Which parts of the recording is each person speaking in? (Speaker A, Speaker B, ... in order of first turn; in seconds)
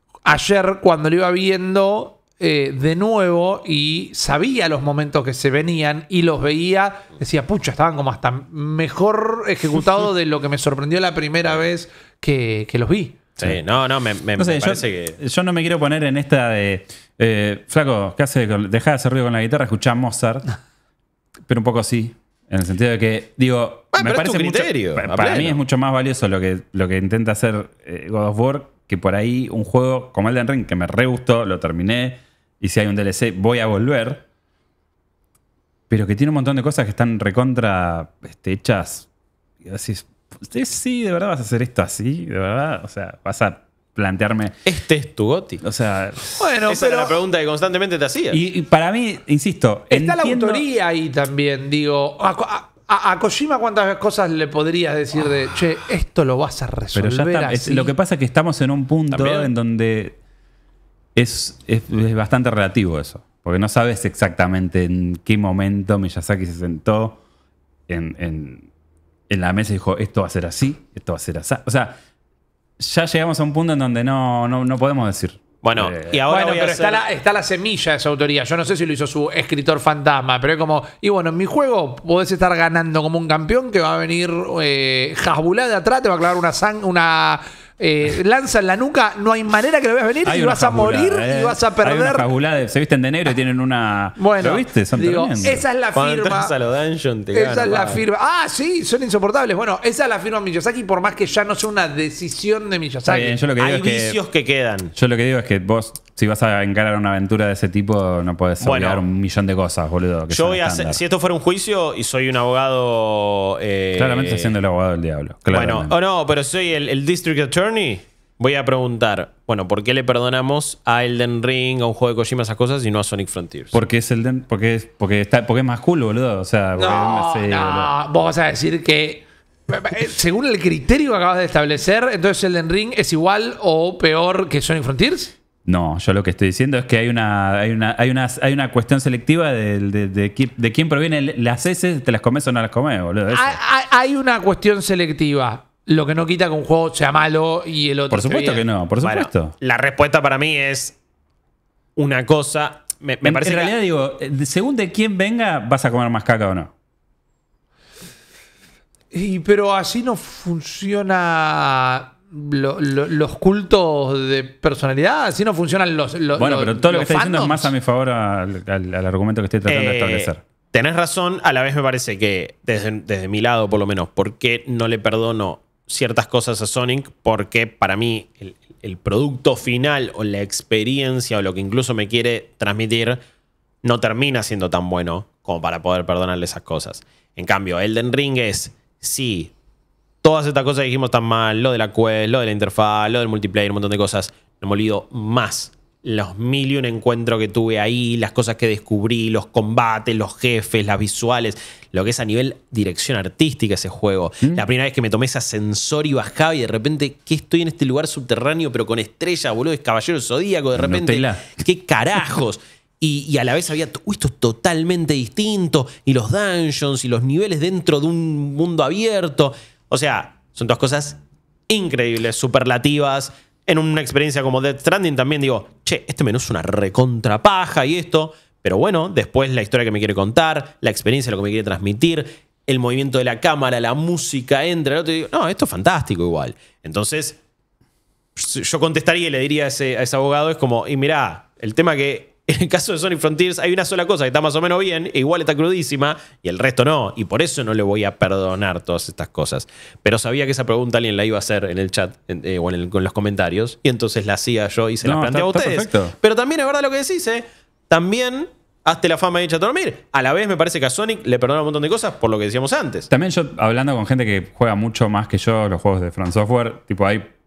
Speaker A: 0.2-13.2, 46.4-47.1, 49.9-57.9, 76.3-92.3, 94.2-96.5, 97.3-103.4, 126.8-135.3, 143.3-148.6, 159.1-167.7
Speaker B: 13.4-15.2, 23.9-25.6, 44.6-45.6, 46.7-48.4, 59.1-59.5, 75.6-77.0, 95.9-98.0, 103.6-104.9, 108.6-109.0, 110.3-114.5, 115.5-123.8, 149.0-151.0, 152.0-153.8, 169.7-183.2, 183.8-189.5, 190.2-221.2, 221.7-237.4, 238.4-263.1
Speaker C: 14.4-20.5, 21.5-34.2, 35.9-39.1, 39.6-44.6, 45.6-46.4, 48.3-50.6, 56.9-60.2, 61.1-67.2, 67.9-68.7, 69.3-72.0, 72.8-76.2, 90.2-95.6, 103.1-104.2, 105.0-111.0, 114.0-115.9, 123.7-127.9, 135.7-143.6, 148.1-149.5, 153.2-156.7, 166.4-170.4, 210.8-211.6, 255.0-256.1, 263.1-267.3